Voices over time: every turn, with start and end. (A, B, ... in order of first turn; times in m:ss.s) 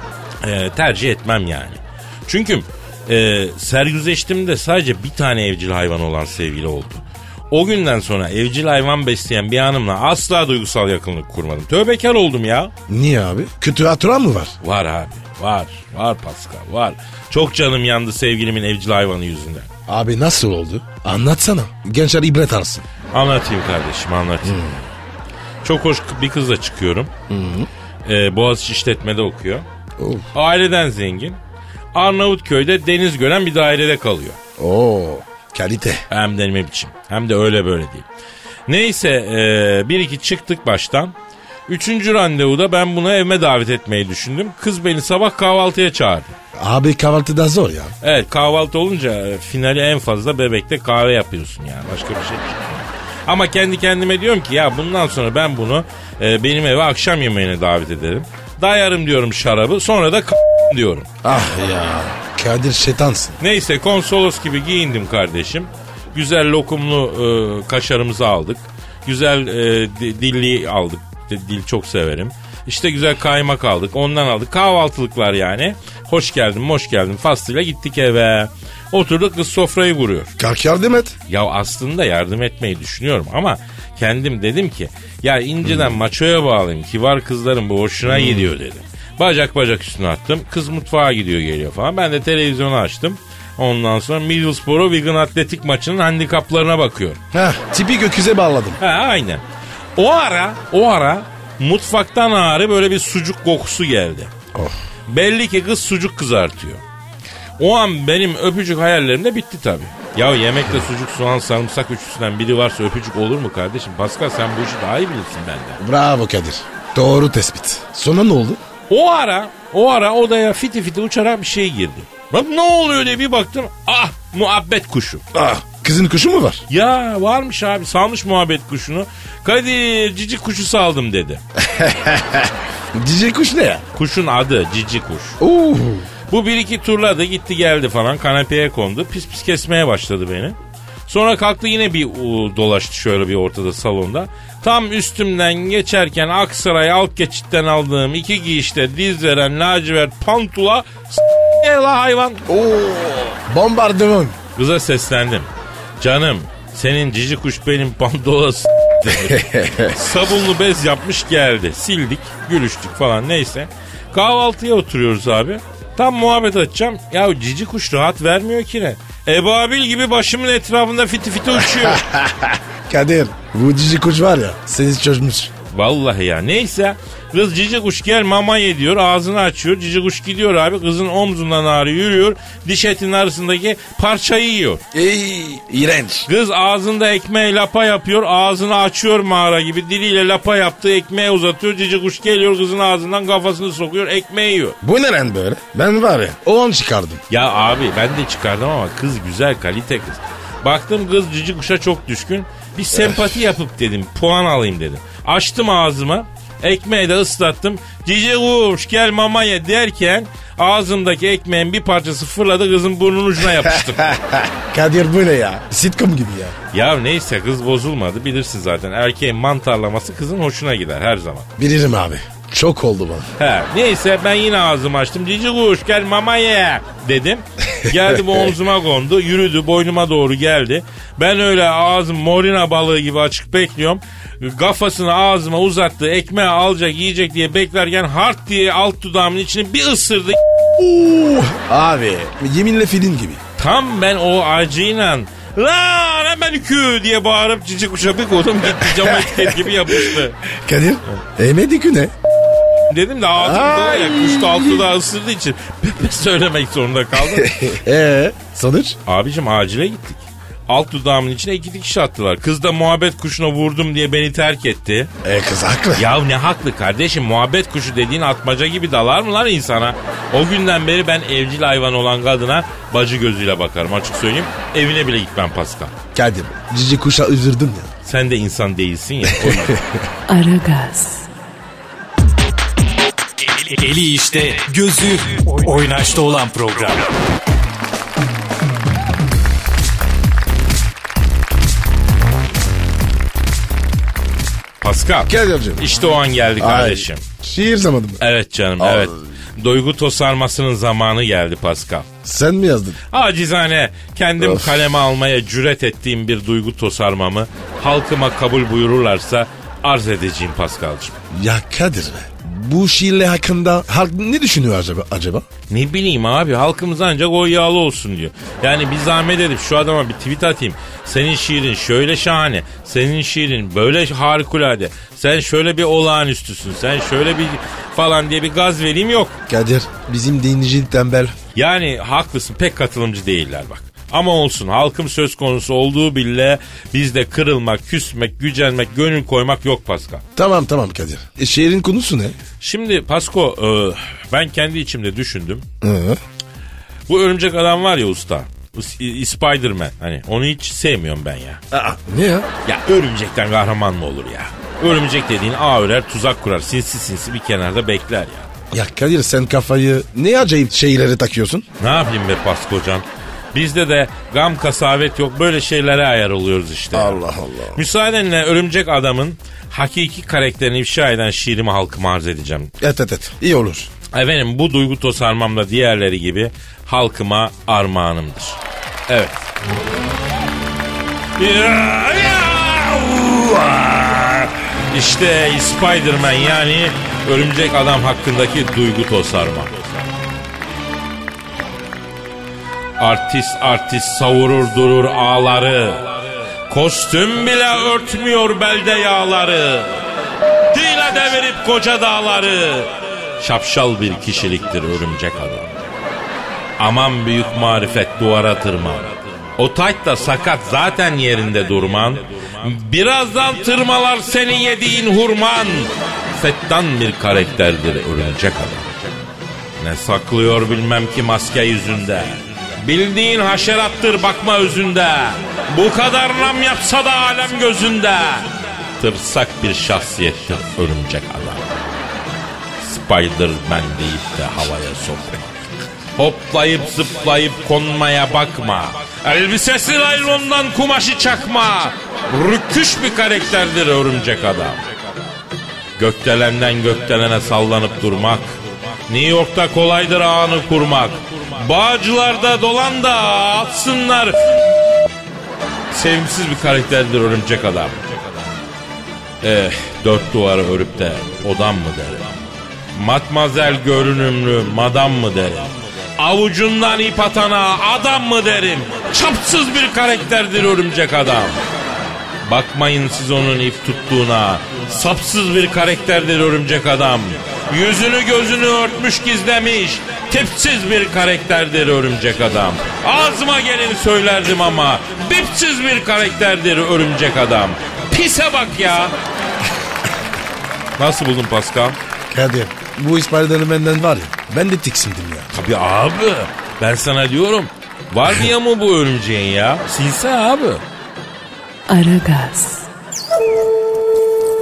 0:00.4-0:12.7 A
0:12.9-0:14.6 B
0:14.6-0:19.7 A
0:19.9-0:22.9 B
0:23.1-0:24.8 A
0:24.4-0:24.8 B
0:25.6-0:27.1 A
0:27.3-0:27.7 B
0:28.1-0:29.7 A
0:30.0-0:30.3 B
0:30.3-0:31.4 A
0:31.9-0:34.4 A
0:34.6-0:36.0 B
0:36.1-0:38.1 A
0:38.7-0:41.2 A
0:41.7-0:46.3 A
0:46.6-0:48.0 B
0:48.0-1:01.1 A
1:01.2-1:03.4 B
1:03.4-1:20.3 A
1:20.4-1:21.2 B
1:21.3-1:37.2 A
1:25.6-1:25.9 B
1:28.0-1:28.5 B
1:37.3-1:38.8 B
1:38.8-1:39.4 A
1:40.0-1:44.3 A
1:45.1-1:46.8 A
1:47.6-1:55.8 A
1:55.8-1:58.6 B
1:58.9-2:05.2 A
2:05.3-2:06.6 B
2:06.7-2:11.4 A
2:11.6-2:13.8 B
2:14.0-2:15.4 A
2:15.4-2:16.1 B
2:16.3-2:20.6 A
2:21.1-2:32.4 A
2:32.5-2:34.4 B
2:34.6-2:35.5 A
2:36.0-2:52.0 A
2:39.1-2:40.0 B
2:51.6-2:55.5 B
2:55.7-3:04.8 A
3:04.9-3:06.3 B
3:06.3-3:14.8 A
3:14.8-3:17.2 B
3:17.3-3:34.2 A
3:23.0-3:23.4 B
3:33.9-3:36.6 B
3:36.7-3:41.5 A
3:41.6-3:43.3 B
3:43.4-4:00.4 A
4:00.8-4:03.4 B
4:03.6-4:10.4 A
4:08.8-4:12.1 B
4:12.9-4:17.6 A
4:13.4-4:14.8 B
4:17.2-4:19.0 B
4:19.1-4:25.1 A
4:25.2-4:26.1 B
4:26.0-4:36.0 A
4:36.2-4:37.9 B
4:38.0-4:39.8 A
4:39.2-4:40.1 B
4:40.3-4:41.3 C
4:43.6-4:47.0 D
4:54.8-4:57.2 A
4:55.3-4:55.8 B
4:56.6-4:58.2 B
4:58.2-5:02.1 A
4:58.8-4:59.2 B
5:02.2-5:03.0 B
5:03.1-5:11.2 A
5:04.4-5:04.8 B
5:11.3-5:15.5 B
5:15.7-5:29.4 A
5:29.5-5:31.4 B
5:31.6-5:40.2 A
5:40.4-5:42.4 B
5:42.6-5:45.6 A
5:45.8-5:46.2 B
5:47.1-5:51.6 A
5:51.7-5:52.5 B
5:52.6-5:58.5 A
5:58.7-6:01.6 B
6:01.8-6:07.2 A
6:06.9-6:07.8 B
6:07.7-6:12.7 A
6:12.8-6:13.9 B
6:14.1-6:18.6 A
6:19.1-6:19.4 A
6:21.4-6:29.8 A
6:33.0-6:36.2 A
6:36.7-6:40.0 A
6:40.7-6:45.7 A
6:46.8-6:59.2 A
6:59.8-7:11.8 A
7:12.8-7:15.5 A
7:16.2-7:24.8 A
7:26.0-7:34.4 A
7:35.9-7:38.0 A
7:39.4-7:42.3 A
7:42.9-7:51.6 A
7:52.4-8:09.1 A
8:11.0-8:12.0 A
8:12.3-8:15.5 B
8:15.5-8:20.8 A
8:21.9-8:22.9 C